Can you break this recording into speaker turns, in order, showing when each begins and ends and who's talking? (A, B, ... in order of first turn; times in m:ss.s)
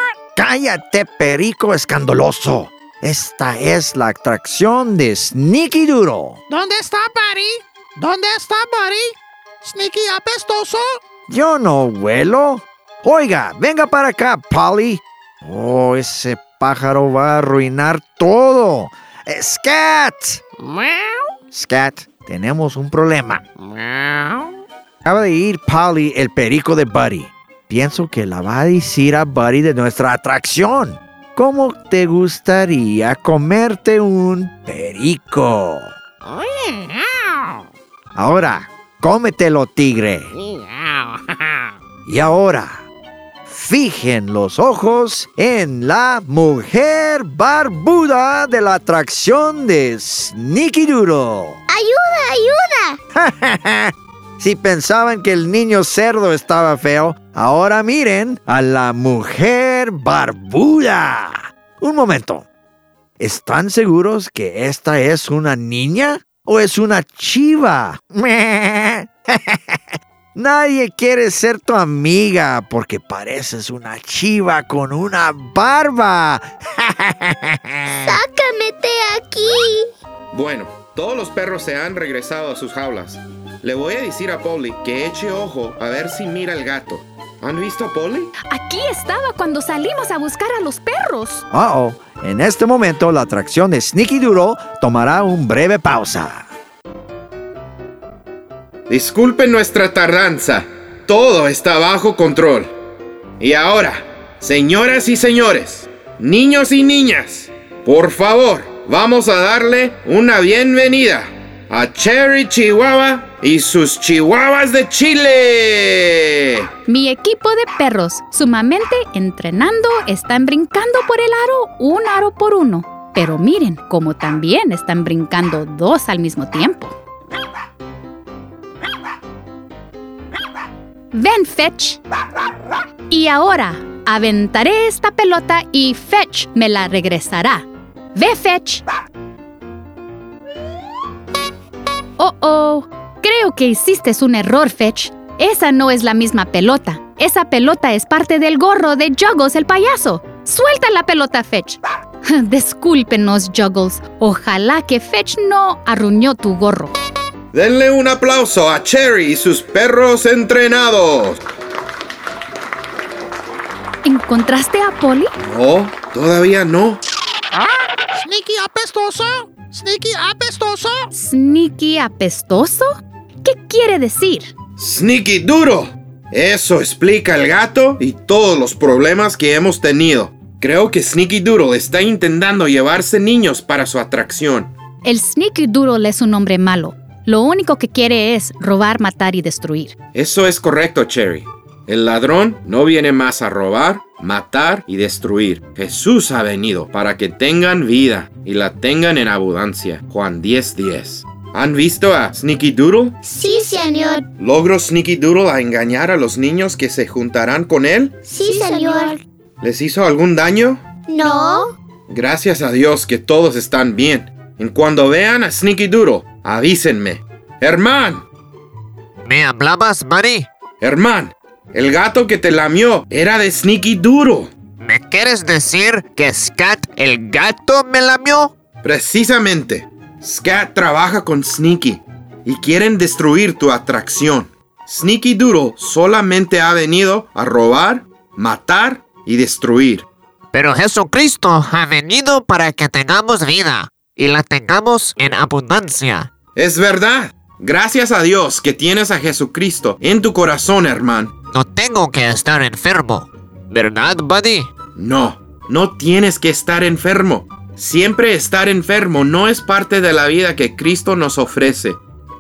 0:00.4-0:06.4 A
0:06.5-0:11.0 B
0:11.3-0:20.4 A
0:21.5-0:23.4 A
0:25.0-0:35.9 A
0:38.2-0:40.3 A
0:42.1-0:42.9 A
0:43.5-0:51.6 A
0:51.7-0:53.0 C
0:53.2-1:02.5 A
1:03.2-1:09.8 A
1:10.4-1:18.2 A
1:17.9-1:19.9 C
1:20.3-1:28.3 D
1:28.5-1:31.4 E
1:31.5-1:36.5 A
1:38.9-1:42.7 D
1:43.4-1:56.5 D
1:56.9-2:07.0 E
2:11.1-2:12.0 E
2:13.1-2:18.8 E
2:22.2-2:37.0 E
2:37.5-2:41.4 D
2:44.0-2:45.3 E
2:45.4-2:47.0 D
2:48.2-2:51.1 B
2:51.1-2:52.9 E
2:53.4-2:54.5 E
2:54.8-3:04.7 D
3:05.0-3:10.0 E
3:10.1-3:23.2 D
3:23.2-3:24.3 C
3:24.4-3:28.2 D
3:28.3-3:29.2 C
3:29.6-3:30.8 D
3:31.1-3:31.8 C
3:32.1-3:38.3 D
3:39.2-3:40.5 F
3:40.8-3:44.5 D
3:44.8-3:48.5 F
3:48.8-4:00.1 D
4:00.5-4:06.3 F
4:06.6-4:11.4 D
4:11.5-4:14.7 F
4:15.0-4:22.0 D